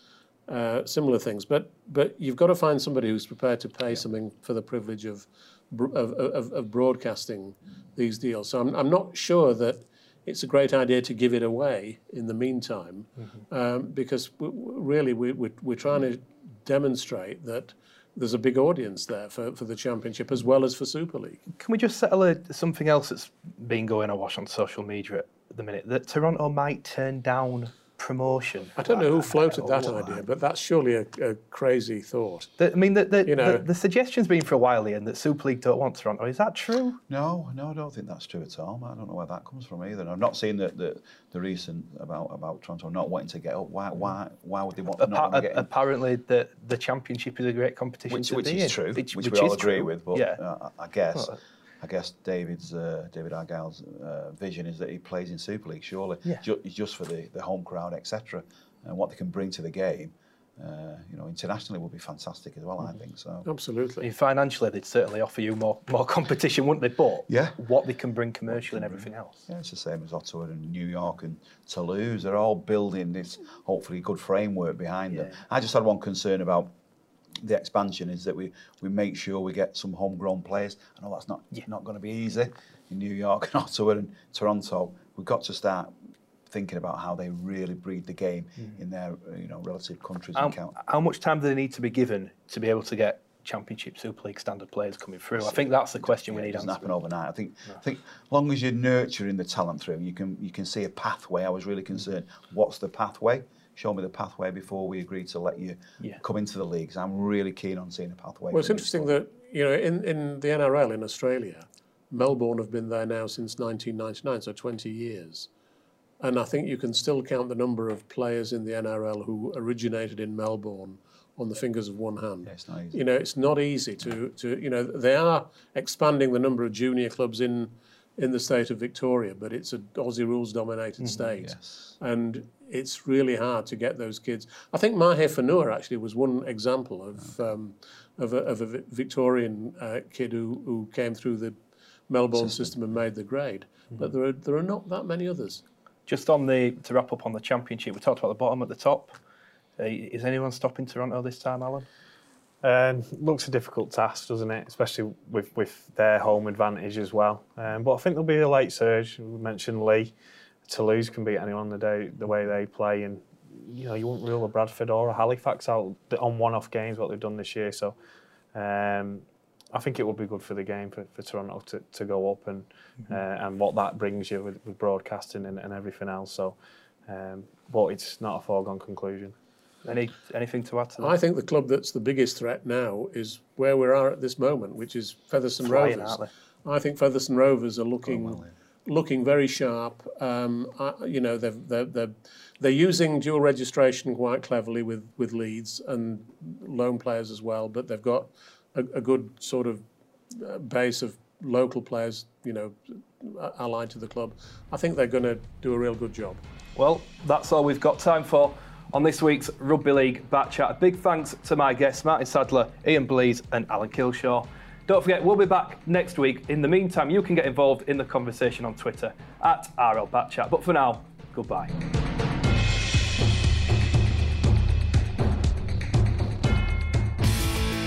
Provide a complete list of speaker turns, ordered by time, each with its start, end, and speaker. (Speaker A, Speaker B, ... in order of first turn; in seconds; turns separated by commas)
Speaker A: 0.5-21.4, Speaker B: 21.5-30.2, Speaker A: 28.8-32.5, Speaker B: 32.6-37.0, Speaker A: 33.3-33.6, Speaker C: 37.1-45.7, Speaker B: 45.0-50.4, Speaker C: 48.1-63.5, Speaker A: 63.5-64.1, Speaker B: 64.0-69.4, Speaker C: 67.3-67.6, Speaker C: 68.5-76.7, Speaker C: 77.4-86.0, Speaker C: 86.5-90.8, Speaker B: 90.4-96.9, Speaker C: 95.4-109.1, Speaker A: 108.5-115.5, Speaker A: 116.2-141.6, Speaker C: 122.4-123.0, Speaker B: 131.0-131.3, Speaker C: 131.4-131.8, Speaker A: 142.1-145.6, Speaker C: 142.3-142.7, Speaker B: 146.1-149.2, Speaker B: 149.8-151.9, Speaker D: 152.6-160.1, Speaker D: 160.7-168.0, Speaker D: 168.5-176.6, Speaker D: 177.1-179.3, Speaker B: 179.8-181.1, Speaker A: 181.0-206.4, Speaker B: 185.6-186.3, Speaker C: 188.1-188.5, Speaker B: 206.8-221.7